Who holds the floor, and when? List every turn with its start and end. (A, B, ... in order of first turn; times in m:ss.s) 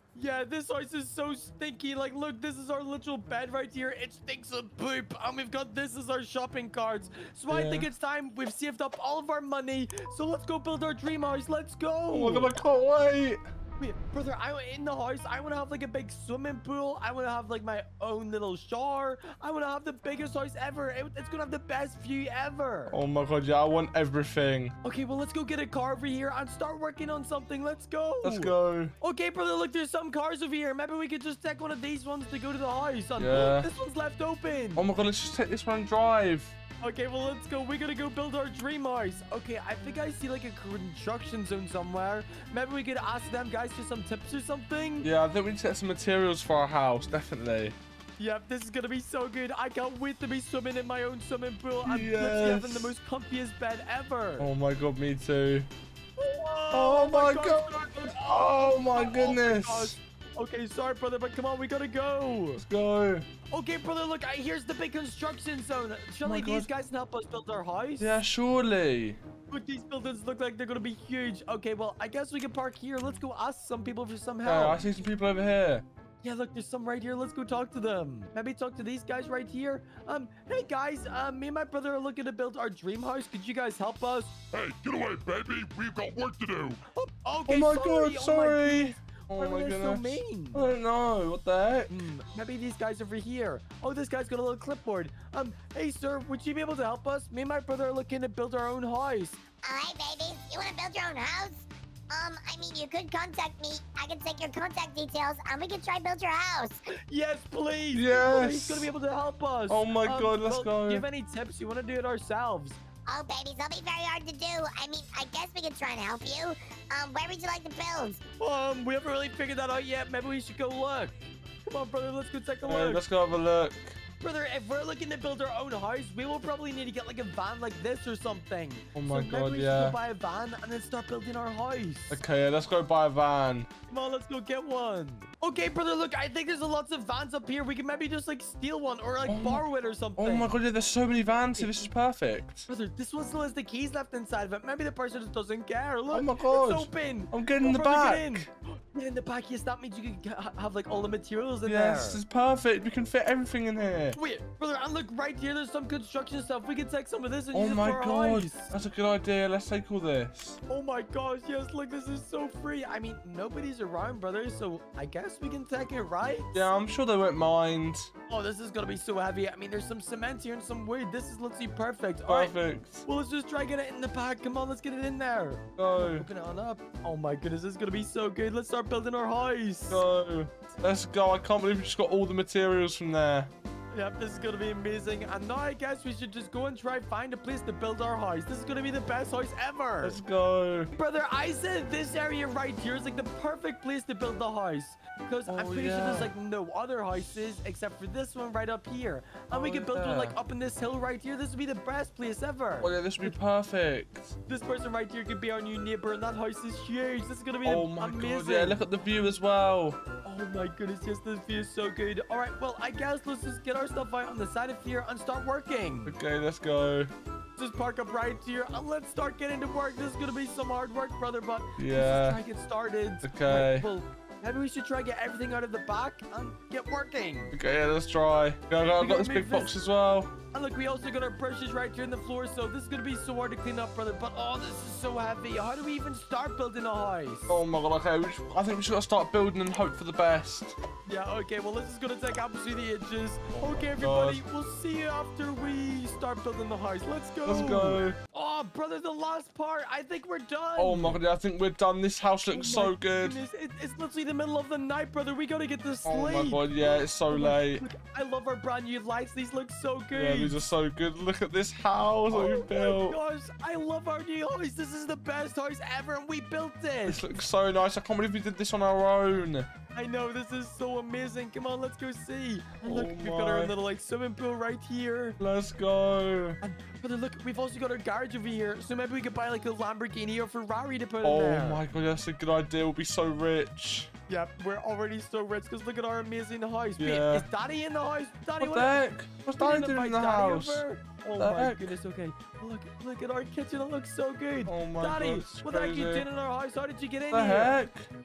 0:00.1-0:12.6 A
0:07.5-0:07.9 B
0:12.1-0:13.4 B
0:13.8-0:23.0 A
0:22.9-0:24.7 B
0:24.8-0:34.8 A
0:28.2-0:28.9 B
0:33.2-0:33.7 B
0:34.8-0:36.5 B
0:36.8-0:45.1 A
0:45.0-0:47.8 B
0:48.2-0:54.5 A
0:51.8-0:52.9 B
0:54.4-0:55.7 B
0:56.2-1:02.6 A
0:56.7-1:00.0 B
1:02.6-1:03.2 B
1:03.5-1:08.2 A
1:06.2-1:06.7 B
1:08.0-1:09.2 B
1:09.5-1:14.8 A
1:14.4-1:15.8 B
1:16.2-1:24.3 A
1:24.5-1:26.8 C
1:26.9-1:30.7 A
1:27.5-1:31.9 B
1:31.9-1:39.4 A
1:39.6-1:46.9 D
1:47.1-1:52.8 A
1:47.9-1:48.9 B
1:49.7-1:51.0 B
1:53.0-1:58.2 D
1:58.4-2:03.0 A
2:02.6-2:04.0 B
2:04.2-2:12.2 A
2:08.9-2:10.0 B
2:12.1-2:13.7 B
2:13.9-2:20.5 A
2:19.3-2:19.6 B
2:20.2-2:22.7 B
2:22.7-2:32.2 A
2:26.1-2:28.5 B
2:31.6-2:34.2 B
2:34.1-2:38.7 A
2:37.5-2:40.6 B
2:40.7-2:46.7 A
2:46.5-2:48.1 B
2:48.3-3:00.0 A
2:52.2-2:53.0 B
2:55.8-2:56.3 B
2:59.9-3:03.5 B
3:03.9-3:10.2 A
3:10.0-3:10.9 B
3:10.9-3:23.4 A
3:15.5-3:16.3 B
3:19.5-3:20.3 B
3:22.8-3:24.4 B
3:24.5-3:28.8 A
3:27.6-3:30.0 B
3:30.2-3:36.2 A
3:36.0-3:37.1 B
3:37.6-3:47.5 A
3:41.8-3:42.4 B
3:43.2-3:43.9 B
3:47.5-3:50.3 B
3:49.0-3:49.7 A
3:50.5-3:57.6 A
3:57.5-4:00.8 B
4:01.0-4:11.2 A
4:03.5-4:04.4 B
4:07.4-4:08.2 B
4:10.8-4:13.4 B
4:12.5-4:20.6 A
4:16.0-4:17.9 B
4:20.1-4:23.2 B
4:22.3-4:27.2 A
4:27.0-4:29.7 B
4:29.9-4:35.4 A
4:32.8-4:33.7 B
4:35.4-4:36.6 B
4:36.6-4:41.8 A
4:41.2-4:44.1 B
4:44.3-4:57.8 A
4:47.0-4:47.5 B
4:48.6-4:50.8 B
4:51.3-4:52.0 B
4:54.6-4:56.3 B
4:57.3-4:58.1 B